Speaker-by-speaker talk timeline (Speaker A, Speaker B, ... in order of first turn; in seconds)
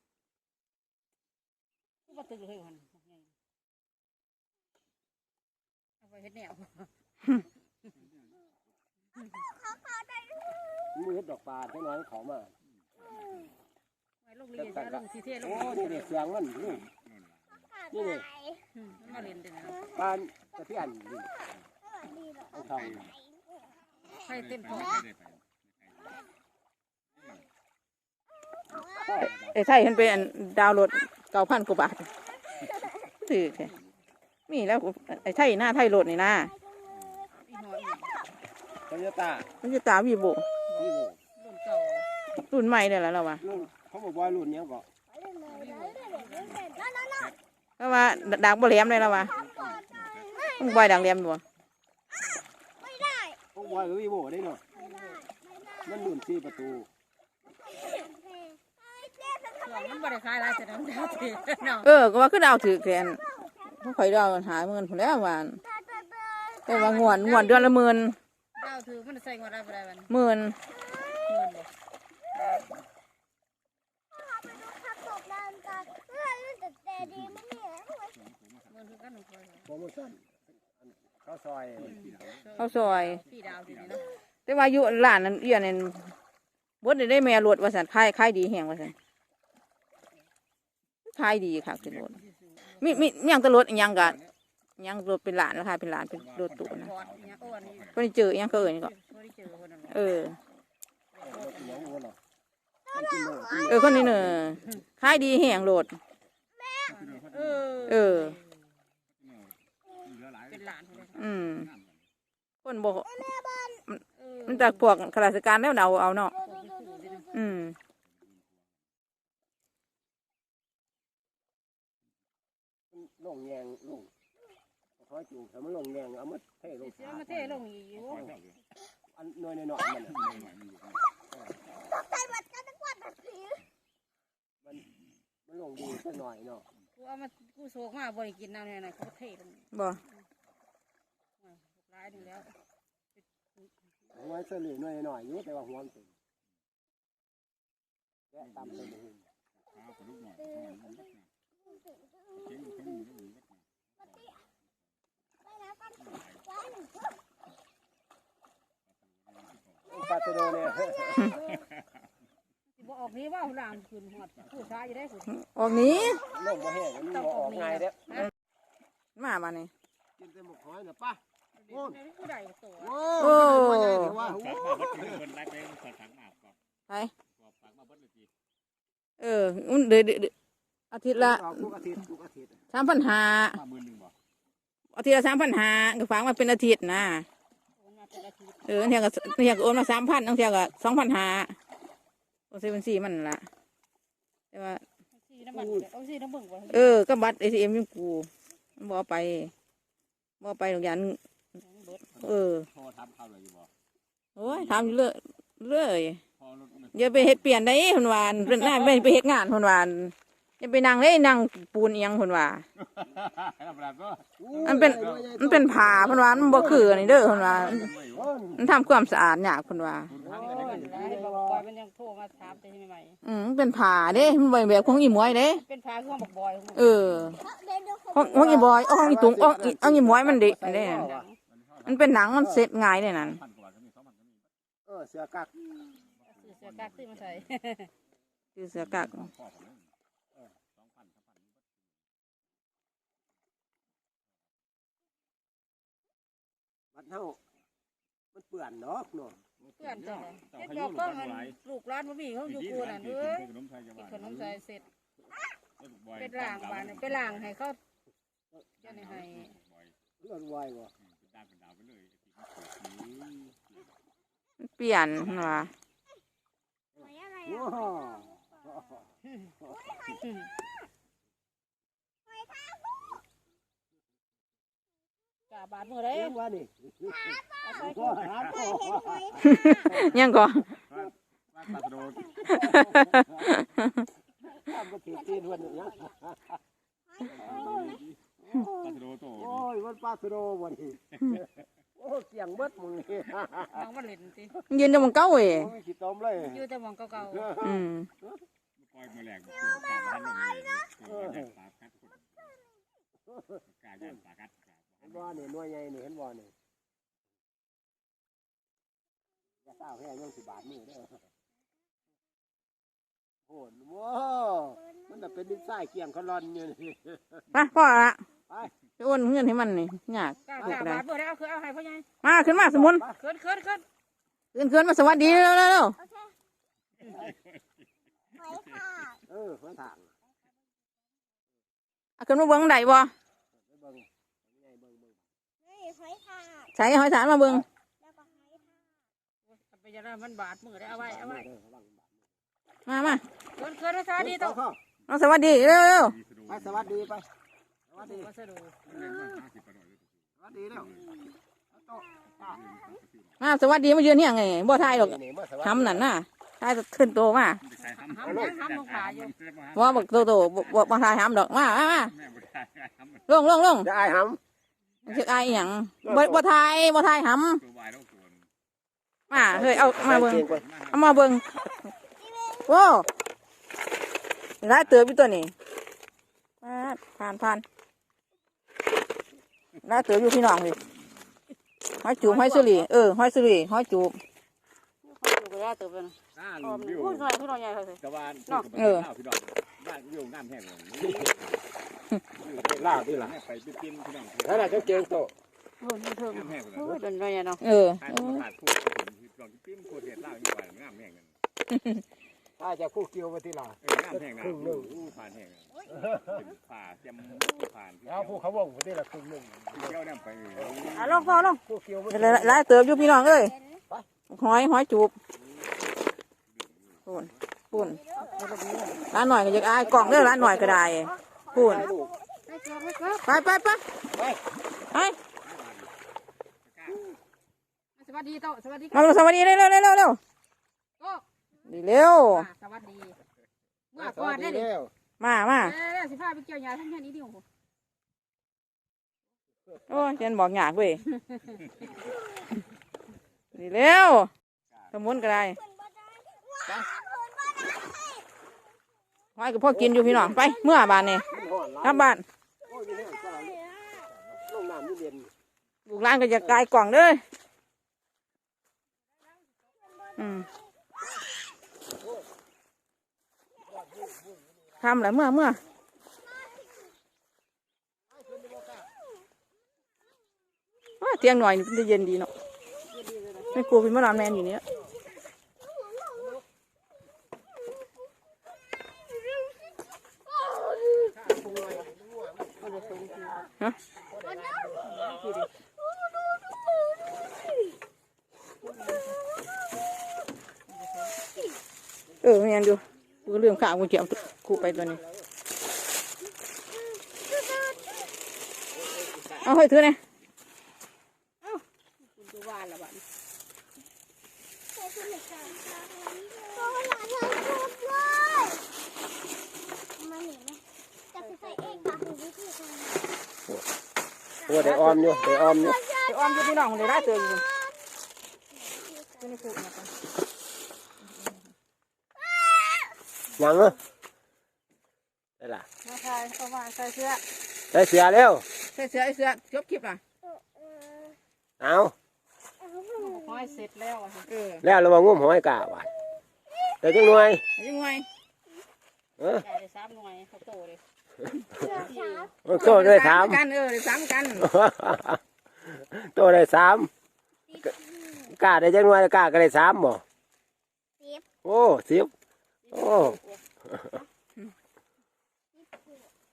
Speaker A: 2.0-3.3, 6.0-6.9, 14.2-16.2, 18.7-19.8, 24.2-24.9, 37.4-38.1, 40.7-42.1, 45.5-46.5, 54.8-55.2, 59.6-61.9, 66.7-67.7, 68.5-70.1, 71.2-71.7, 72.3-72.7, 78.7-79.7, 81.8-84.1, 92.1-93.0, 96.8-97.9, 98.5-100.0, 101.1-101.9, 106.9-108.5, 110.5-111.2, 114.2-114.8, 116.4-117.3, 126.7-128.3, 136.9-139.7, 141.4-142.5, 143.2-143.7, 161.3-161.6, 162.8-165.4, 167.1-168.3, 171.6-172.9, 187.8-188.9, 195.1-197.0, 201.5-202.1, 220.7-223.2, 225.5-227.0, 231.0-231.3, 236.2-237.9, 249.8-254.8, 256.1-257.8, 258.8-259.6, 270.2-270.5, 275.5-276.3, 277.6-278.2, 293.7-294.6, 296.4-297.5, 320.4-322.1, 323.2-323.9, 339.5-341.4, 343.6-344.6, 348.0-348.8, 357.8-359.3, 382.2-382.9, 385.0-388.7, 395.8-397.6, 411.0-411.6, 418.2-419.0, 422.5-423.2, 427.9-429.2, 431.0-431.2, 432.3-433.2, 433.9-434.7, 435.6-437.4, 472.8-473.6, 482.6-483.4, 484.8-485.5, 488.6-489.2, 490.7-491.2, 501.4-503.0, 511.2-512.0, 525.8-527.2, 533.0-534.3, 539.4-540.8, 541.8-542.2, 552.7-553.4
Speaker B: 9.6-10.9, 17.7-18.6, 19.7-19.9, 21.8-22.5, 28.7-29.1, 32.6-32.9, 36.6-37.4, 45.1-47.3, 49.3-50.9, 52.8-53.4, 54.8-56.0, 57.6-60.1, 61.1-61.6, 65.6-67.3, 70.7-71.2, 74.1-78.1, 102.9-103.6, 106.6-107.0, 113.3-113.8, 116.4-117.3, 132.2-133.6, 151.7-152.9, 154.1-154.4, 155.4-157.2, 227.4-228.8, 267.0-268.8, 269.7-270.2, 272.3-273.1, 277.1-277.9, 278.5-280.0, 287.2-288.0, 326.0-326.3, 328.4-329.2, 335.6-336.7, 338.0-338.7, 372.2-372.6, 413.4-413.8, 417.8-418.5, 421.7-422.6, 445.5-448.2, 450.4-450.8, 453.7-454.0, 459.8-460.1, 466.3-466.7, 475.6-476.3, 484.4-485.0, 486.1-486.8, 504.7-508.6, 510.0-510.6, 511.1-513.1, 514.7-517.8, 518.5-519.4, 522.2-523.0, 530.2-531.1, 532.6-533.5, 541.5-542.4, 547.5-548.3, 551.0-551.2, 555.5-556.1
Speaker C: 10.9-12.5, 14.5-16.8, 17.9-18.3, 19.9-21.3, 22.5-23.1, 28.9-29.3, 38.9-39.5, 40.8-41.2, 43.4-44.9, 53.5-54.6, 55.8-56.9, 79.7-82.0, 101.2-102.2, 102.9-104.5, 122.9-124.1, 125.0-127.3, 129.1-130.3, 135.4-136.6, 144.1-146.1, 148.3-149.2, 159.8-161.4, 166.1-168.1, 170.2-172.0, 172.8-175.2, 181.1-182.6, 195.5-195.8, 214.4-217.2, 218.1-218.6, 220.2-221.6, 228.1-231.3, 232.4-232.7, 234.8-235.5, 246.9-247.4, 248.3-249.5, 260.2-260.9, 267.0-269.0, 276.1-279.7, 282.5-283.5, 284.5-286.6, 288.4-291.4, 291.9-293.8, 295.5-296.6, 297.2-298.4, 301.0-301.5, 303.3-304.1, 305.0-306.5, 309.6-311.2, 313.5-317.4, 322.4-323.2, 329.3-330.1, 333.6-335.2, 340.9-342.1, 344.2-344.8, 346.5-347.3, 347.9-348.3, 350.4-351.0, 351.7-352.6, 354.7-356.1, 358.2-358.6, 363.8-364.4, 366.0-366.4, 369.3-370.6, 392.6-393.3, 394.4-395.3, 402.6-404.9, 405.9-406.5, 408.0-410.0, 410.6-412.6, 419.8-422.1, 424.1-424.4, 433.9-434.9, 449.7-450.4, 451.3-452.1, 452.6-453.6, 454.3-455.3, 463.8-464.5, 468.1-468.9, 480.8-483.3, 484.1-484.9, 494.3-495.0, 514.5-515.8, 523.4-523.8, 525.4-525.6, 527.7-528.4, 531.6-531.9, 534.6-535.9, 536.8-537.4, 539.2-539.4, 542.4-543.4, 544.4-546.9, 548.2-550.0, 551.4-552.1, 552.7-554.0
Speaker D: 13.0-13.4, 16.7-17.1, 22.8-23.1, 24.4-26.0, 36.9-37.2, 49.4-50.2, 77.1-77.4, 78.2-78.7, 81.9-82.6, 83.2-84.0, 96.3-97.9, 106.9-107.8, 110.0-111.9, 128.0-128.6, 130.2-131.0, 149.7-151.2, 152.3-154.3, 156.0-156.4, 174.2-176.5, 177.4-178.3, 183.6-184.1, 202.7-203.7, 206.4-207.3, 213.0-215.2, 217.1-218.2, 220.1-220.9, 231.5-231.9, 233.2-234.4, 236.2-237.5, 239.0-239.8, 240.8-241.4, 249.8-251.6, 252.5-254.6, 255.8-257.4, 258.8-259.9, 261.1-263.8, 280.9-282.6, 287.2-288.2, 288.8-289.6, 298.8-302.3, 303.8-305.3, 346.2-346.6, 348.9-350.0, 352.4-353.2, 357.7-359.8, 362.2-363.2, 367.6-368.4, 370.6-370.9, 386.4-387.4, 388.0-391.4, 392.4-395.0, 396.3-396.9, 398.1-401.3, 403.8-405.7, 406.3-408.3, 409.9-411.2, 425.5-425.9
Speaker E: 29.5-32.1, 33.2-33.7, 34.5-36.5, 39.6-40.5, 42.4-43.4, 47.8-49.4, 50.5-51.4, 61.8-65.6, 66.7-68.2, 70.1-70.5, 82.6-83.2, 84.5-86.1, 86.8-88.9, 91.1-92.2, 92.8-94.2, 94.8-96.9, 97.9-98.9, 99.9-100.4, 103.7-106.0, 107.8-108.3, 111.2-111.7, 112.6-113.3, 113.9-116.3, 117.3-117.8, 139.7-140.0, 165.3-166.2, 169.2-169.7, 173.2-174.2, 179.2-180.3, 180.9-181.7, 182.7-183.6, 184.9-187.2, 188.6-191.5, 192.5-193.4, 194.5-194.8, 196.7-199.5, 200.4-201.2, 202.2-202.7, 204.3-206.2, 206.9-212.6, 214.6-217.9, 218.6-220.1, 223.2-225.6, 226.7-227.4, 228.1-231.1, 231.8-233.4, 238.6-239.3, 264.6-265.7, 279.4-280.7, 282.4-284.0, 294.7-295.7, 297.6-298.1, 317.5-318.2, 319.0-321.0, 322.2-323.0, 324.5-326.0, 332.2-333.1, 336.7-337.6, 342.9-343.2, 345.1-346.2, 353.4-357.6, 359.7-362.1, 363.3-363.9, 365.1-367.6, 369.3-371.9, 372.6-373.1, 374.6-375.5, 376.6-377.6, 379.8-380.8, 382.0-384.2, 388.7-389.1, 397.6-398.4, 401.7-402.0, 412.1-413.5, 414.3-415.1, 417.1-418.0, 419.0-421.8, 423.2-423.8, 424.9-425.2, 428.9-430.2, 431.6-432.5, 435.2-435.8, 439.9-441.1, 443.5-444.3, 444.9-445.6, 449.4-451.3, 451.8-452.2, 455.9-457.2, 460.2-460.5, 464.8-465.6, 471.0-472.3, 473.5-474.6, 492.2-495.0, 499.4-500.0, 514.6-515.0, 516.0-517.5, 519.2-519.9, 528.7-530.0, 534.3-534.6, 537.6-538.0, 542.5-544.5